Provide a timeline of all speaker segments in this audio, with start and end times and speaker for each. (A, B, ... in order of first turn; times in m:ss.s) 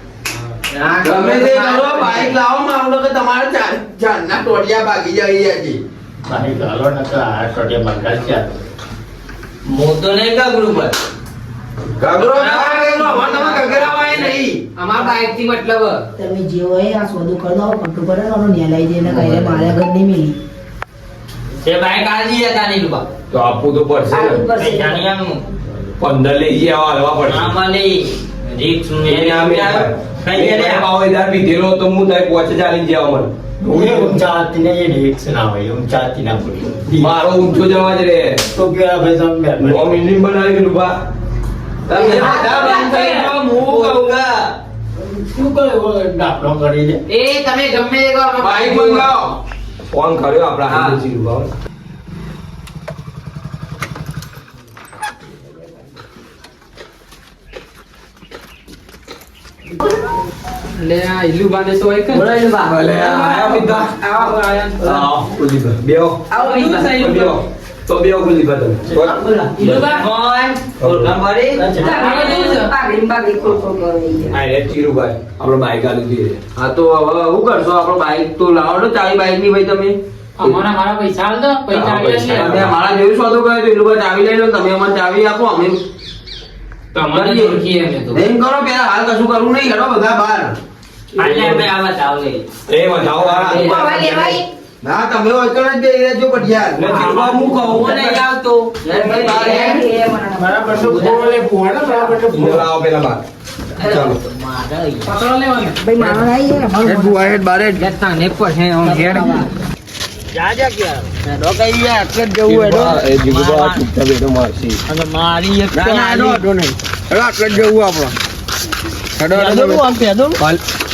0:00.7-0:02.3 A
0:01.0-0:05.8 B
0:06.2-0:08.6 C
0:09.6-0:11.0 A
0:12.0-0:14.6 B
0:12.2-0:16.0 A
0:16.2-0:20.4 D
0:19.2-0:19.6 A
0:21.6-0:23.0 A
0:23.3-0:24.4 E
0:24.1-0:25.0 D
0:24.5-0:25.4 A
0:26.0-0:27.5 E
0:27.3-0:30.8 A
0:29.0-0:34.2 E
0:33.7-0:37.2 C
0:37.0-0:38.4 E
0:38.5-0:40.0 C
0:39.6-0:41.0 E
0:41.9-0:44.2 B
0:41.9-0:42.9 E
0:41.9-0:44.3 A
0:42.2-0:42.6 D
0:45.0-0:47.0 C
0:47.1-0:49.1 A
0:48.4-0:49.3 B
0:48.7-0:49.1 E
0:49.9-0:51.5 E
0:50.7-0:51.0 B
1:00.8-1:02.4 F
1:02.1-1:03.1 A
1:02.6-1:09.8 E
1:03.0-1:05.1 F
1:06.3-1:07.3 A
1:06.3-1:07.2 F
1:08.9-1:09.4 C
1:09.5-1:10.0 F
1:09.6-1:12.8 A
1:10.8-1:11.2 E
1:11.5-1:12.1 C
1:11.8-1:12.7 F
1:11.8-1:14.4 D
1:14.3-1:16.4 E
1:16.6-1:20.5 B
1:20.4-1:22.6 F
1:21.7-1:25.8 B
1:21.8-1:22.7 E
1:26.9-1:28.2 A
1:27.0-1:27.6 B
1:28.1-1:30.5 B
1:31.2-1:31.7 E
1:31.2-1:32.5 A
1:32.7-1:34.4 E
1:33.0-1:33.8 A
1:33.5-1:34.4 D
1:34.8-1:38.2 B
1:36.8-1:38.2 E
1:37.1-1:39.8 A
1:38.8-1:39.8 B
1:38.9-1:41.3 D
1:40.4-1:42.7 C
1:42.3-1:43.2 E
1:43.7-1:45.1 A
1:43.8-1:44.2 E
1:45.0-1:45.8 F
1:45.7-1:47.2 D
1:46.8-1:47.9 B
1:47.8-1:49.5 A
1:48.8-1:49.4 D
1:50.5-1:53.9 A
1:52.1-1:53.0 B
1:52.4-1:54.8 E
1:54.9-1:56.4 A
1:55.7-1:58.2 B
1:59.2-1:59.8 B
1:59.3-1:59.8 A
1:59.6-2:00.3 D